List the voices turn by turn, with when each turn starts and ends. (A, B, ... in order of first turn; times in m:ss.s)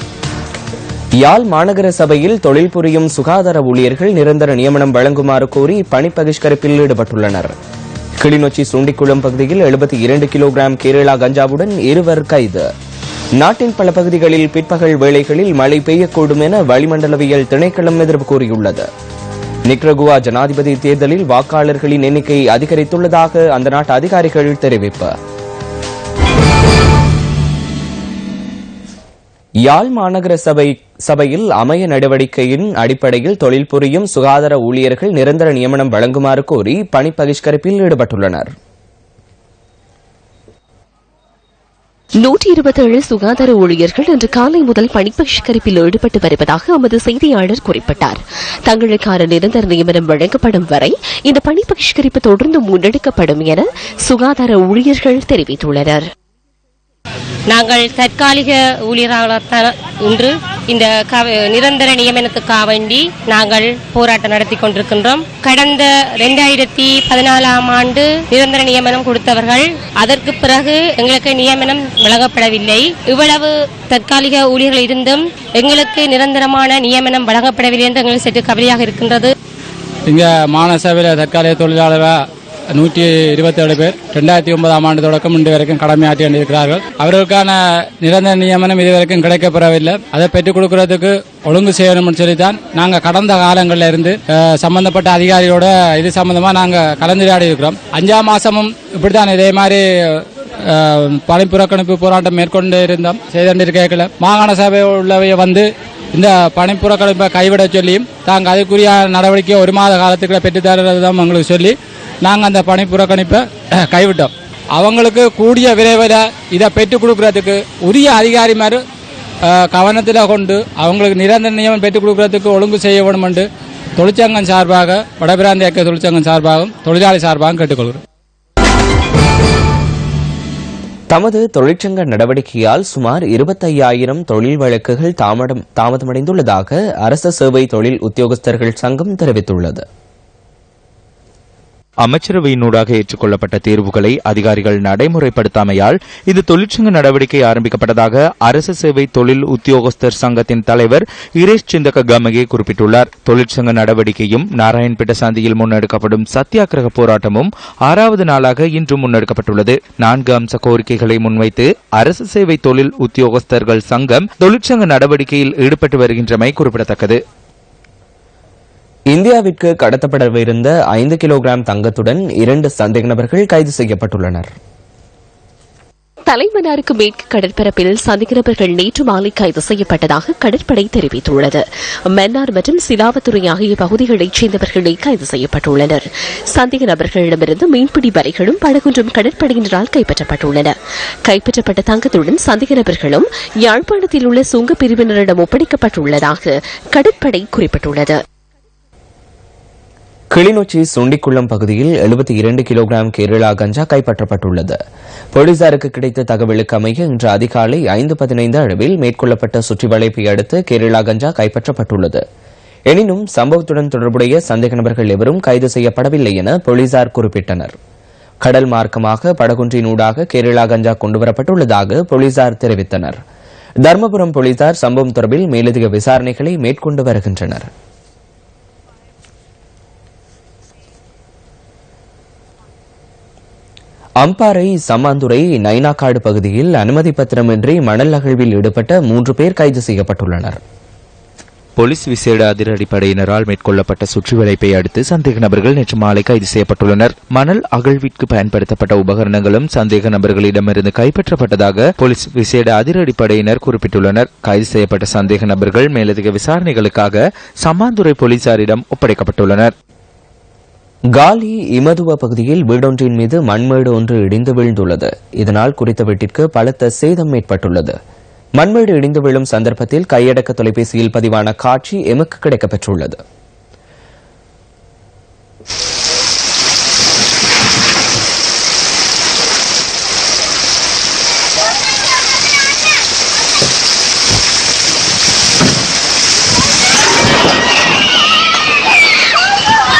0:01.2-0:07.6 A
0:08.2-0:12.7 A
0:13.4-0:18.9 A
0:19.7-0:25.1 A
0:29.6-0:38.5 A
0:42.2-0:56.0 B
0:57.5-1:19.3 C
1:20.1-1:22.2 D
1:22.7-1:58.8 D
1:59.5-2:08.0 D
2:11.1-2:19.8 A
2:22.0-2:47.2 E
2:49.1-2:54.5 A
2:56.3-3:10.8 B
3:11.3-3:18.2 B
3:20.3-3:24.8 A
3:25.3-3:32.2 A
3:32.9-3:37.8 A
3:38.4-3:43.2 A
3:43.8-3:47.7 A
3:54.2-4:00.6 A
4:01.8-4:19.7 E
4:21.1-4:28.0 A
4:28.6-4:33.2 A